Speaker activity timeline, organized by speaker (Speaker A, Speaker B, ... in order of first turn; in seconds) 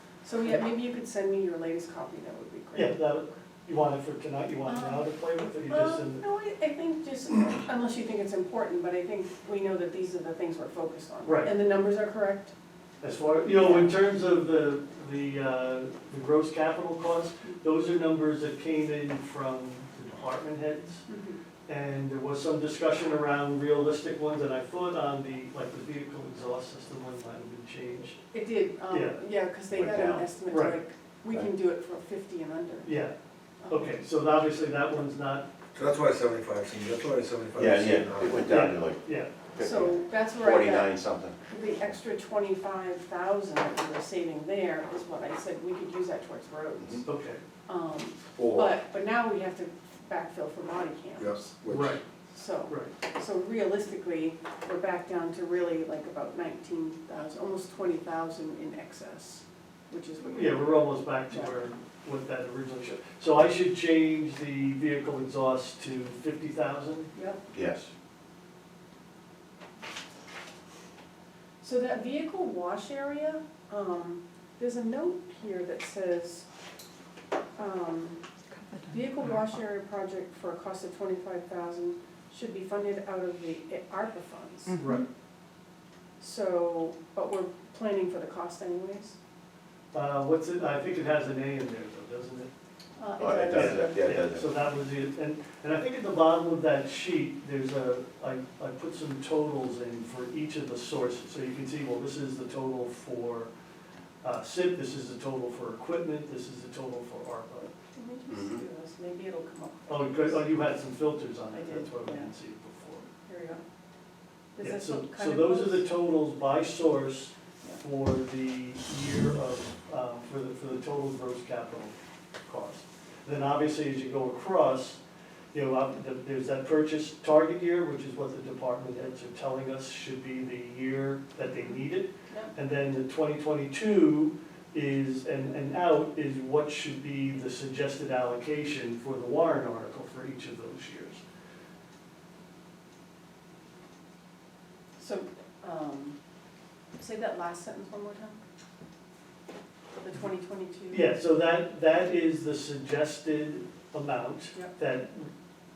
Speaker A: 0.2-3.0, 4.7-12.5, 13.5-13.9, 21.1-21.4, 28.3-32.9, 33.6-34.0, 39.6-40.9, 41.5-47.0, 47.6-51.5, 52.3-61.6, 67.1-67.4, 71.6-76.5, 77.6-78.2, 78.8-84.8, 86.2-89.2, 93.0-94.1, 107.9-110.5, 111.5-112.3, 113.2-113.6, 114.5-115.9, 145.0-146.2, 147.0-148.4, 150.0-151.1
Speaker B: 2.7-6.2, 11.2-11.5, 13.0-21.0, 21.7-28.2, 28.9-29.3, 30.4-30.8, 32.8-33.1, 33.7-35.5, 38.4-39.4, 47.0-47.4, 51.7-52.0, 52.7-52.9, 60.2-67.1, 84.8-85.0, 89.9-92.5, 93.5-103.5, 104.2-107.7, 109.9-113.1, 114.6-125.0, 125.5-141.2, 150.9-155.3
Speaker C: 29.7-30.3, 37.6-39.0, 39.5-41.4, 48.4-48.6, 67.5-67.9, 93.2-94.4
Speaker D: 35.7-38.6, 51.2-52.0